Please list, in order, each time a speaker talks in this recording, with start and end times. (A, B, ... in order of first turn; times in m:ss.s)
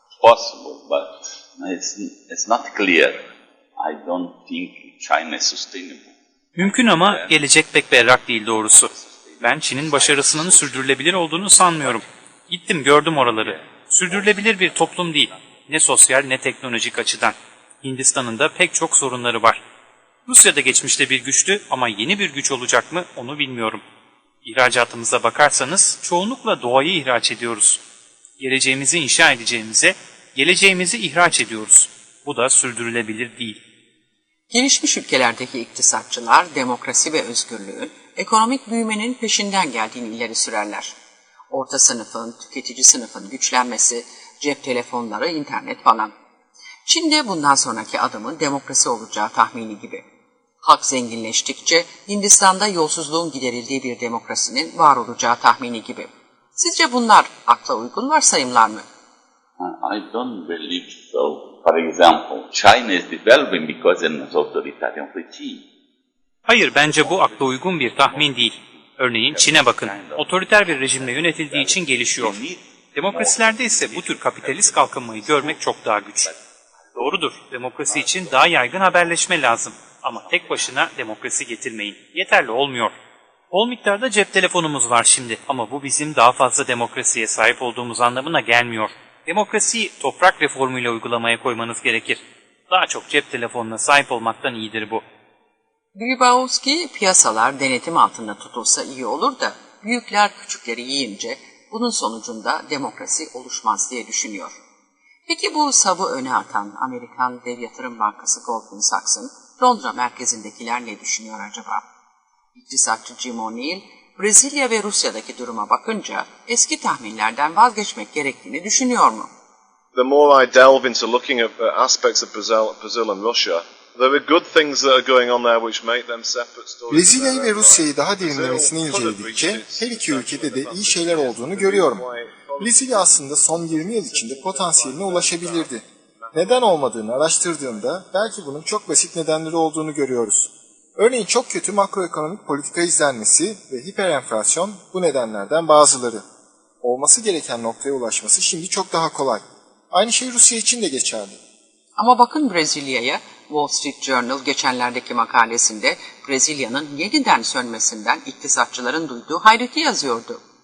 0:00.2-0:07.4 A
0:06.5-0:19.6 B
0:08.6-0:10.9 A
0:20.2-0:23.8 B
0:24.4-0:27.8 B
0:28.4-0:33.6 B
0:34.5-0:40.9 C
0:41.5-0:46.1 C
0:46.8-0:50.0 C
0:50.6-0:58.8 C
0:59.6-1:05.7 A
1:06.4-1:16.3 B
1:06.8-1:16.4 A
1:17.0-1:22.9 B
1:17.8-1:19.1 A
1:23.5-1:35.0 B
1:35.9-1:44.6 C
1:45.3-1:51.8 C
1:52.5-1:59.3 C
1:59.9-2:18.0 D
2:06.9-2:12.1 E
2:12.6-2:26.2 E
2:26.8-2:31.4 E
2:32.0-2:40.4 C